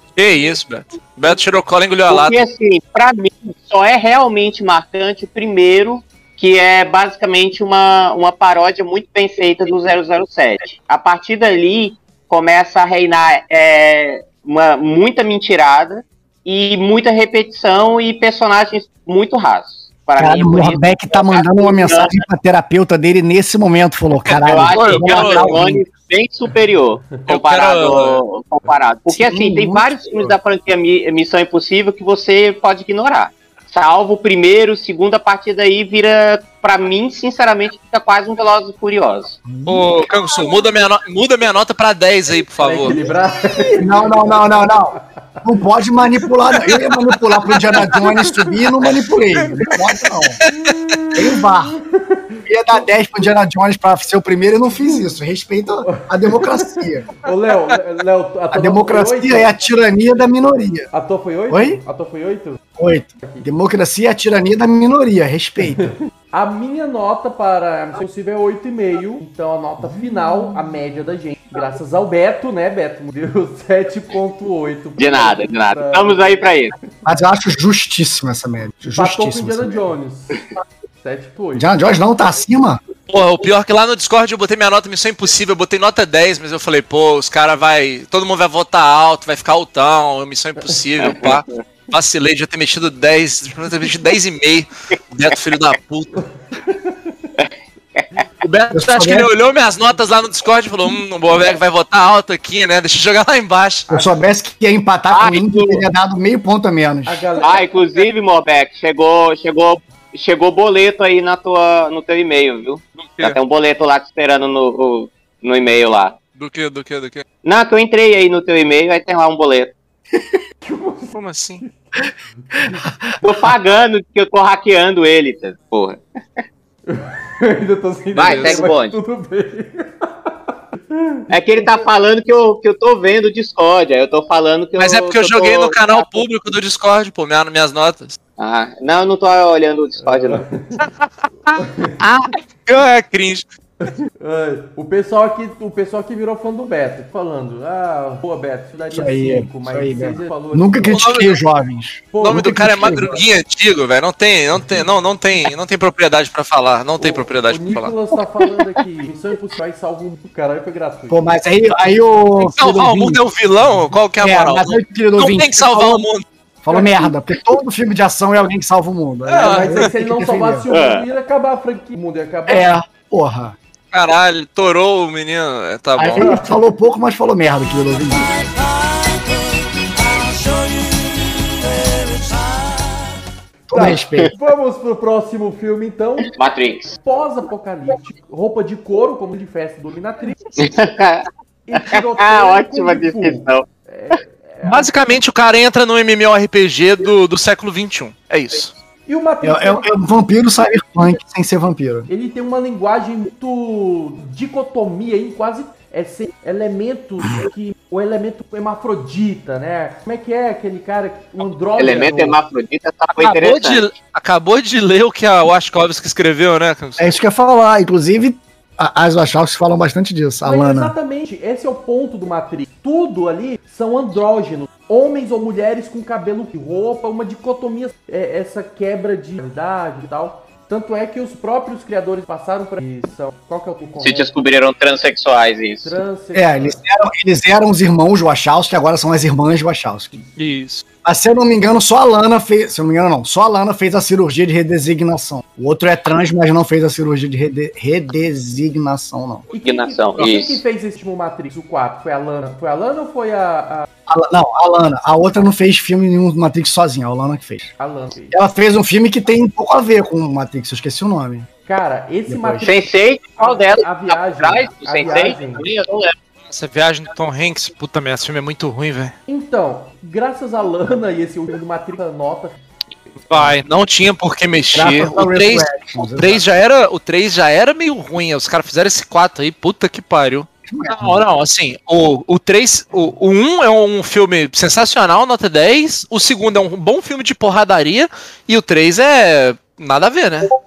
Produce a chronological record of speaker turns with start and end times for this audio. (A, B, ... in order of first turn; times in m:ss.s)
0:00.2-0:02.4 A
0:02.1-0:22.2 B
0:20.2-0:25.8 C
0:24.2-0:25.6 A
0:24.4-0:39.4 B
0:27.3-0:28.2 A
0:29.1-0:30.3 C
0:39.5-0:39.9 C
0:39.7-0:43.0 A
0:42.6-0:45.0 D
0:43.8-0:50.4 C
0:46.7-0:46.9 A
0:47.5-0:48.0 A
0:47.8-0:48.6 D
0:49.4-0:49.7 A
0:50.4-0:50.7 A
0:50.5-0:52.4 D
0:51.2-0:51.8 C
0:52.5-0:57.1 C
0:54.8-0:55.2 D
0:55.8-0:59.5 D
0:58.5-1:00.9 C
1:00.9-1:02.6 D
1:01.5-1:01.8 C
1:02.8-1:06.0 C
1:05.6-1:16.4 D
1:15.0-1:16.7 B
1:17.1-1:19.9 C
1:18.9-1:20.4 D
1:21.0-1:21.7 D
1:21.5-1:22.8 C
1:23.1-1:36.2 A
1:31.0-1:31.4 B
1:36.6-1:37.0 D
1:37.4-1:38.0 B
1:38.4-1:43.9 A
1:38.7-1:39.3 C
1:43.9-1:47.3 C
1:45.1-1:45.8 B
1:47.1-1:47.7 D
1:47.4-1:56.2 B
1:53.0-1:53.4 A
1:56.4-1:57.2 A
1:57.4-1:59.7 B
2:00.6-2:01.7 D
2:01.1-2:01.6 A
2:02.4-2:02.8 D
2:03.2-2:06.0 B
2:06.9-2:11.2 D
2:08.1-2:09.0 B
2:08.2-2:08.7 A
2:11.3-2:16.2 B
2:14.8-2:18.2 A
2:18.4-2:20.4 B
2:20.0-2:20.8 D
2:20.8-2:23.4 A
2:21.5-2:22.0 D
2:23.9-2:31.0 D
2:28.9-2:33.2 C
2:30.8-2:31.4 A
2:32.1-2:32.6 D
2:32.2-2:38.0 A
2:37.0-2:41.2 D
2:41.1-2:43.2 C
2:42.4-2:46.2 A
2:44.2-2:46.1 C
2:46.6-2:50.7 C
2:46.7-2:47.1 D
2:49.3-2:49.9 A
2:49.4-2:52.7 D
2:50.7-2:51.1 B
2:52.5-2:53.6 C
2:53.9-2:56.3 A
2:56.0-2:58.2 C
2:56.2-2:56.5 D
2:58.1-3:03.2 E
3:03.7-3:04.3 C
3:03.7-3:06.3 D
3:03.9-3:04.3 B
3:06.3-3:07.0 B
3:07.0-3:10.4 D
3:10.6-3:11.3 B
3:11.7-3:15.0 D
3:11.8-3:13.6 B
3:14.6-3:18.7 A
3:19.1-3:19.9 D
3:19.4-3:22.1 C
3:22.1-3:32.4 D
3:31.8-3:33.9 B
3:33.2-3:37.1 A
3:37.0-3:40.9 C
3:40.4-3:54.3 D
3:54.0-3:56.0 B
3:55.8-3:56.8 D
3:56.3-4:00.2 C
4:00.4-4:00.8 A
4:01.0-4:09.5 C
4:09.5-4:13.9 D
4:09.6-4:10.6 B
4:14.1-4:17.7 C
4:17.8-4:18.4 D
4:18.3-4:21.5 C
4:21.7-4:25.7 D
4:22.3-4:22.7 C
4:22.6-4:26.2 B
4:26.5-4:29.2 A
4:29.3-4:32.6 D
4:33.3-4:33.5 D
4:33.3-4:50.5 A
4:34.7-4:36.4 C
4:40.7-4:41.2 C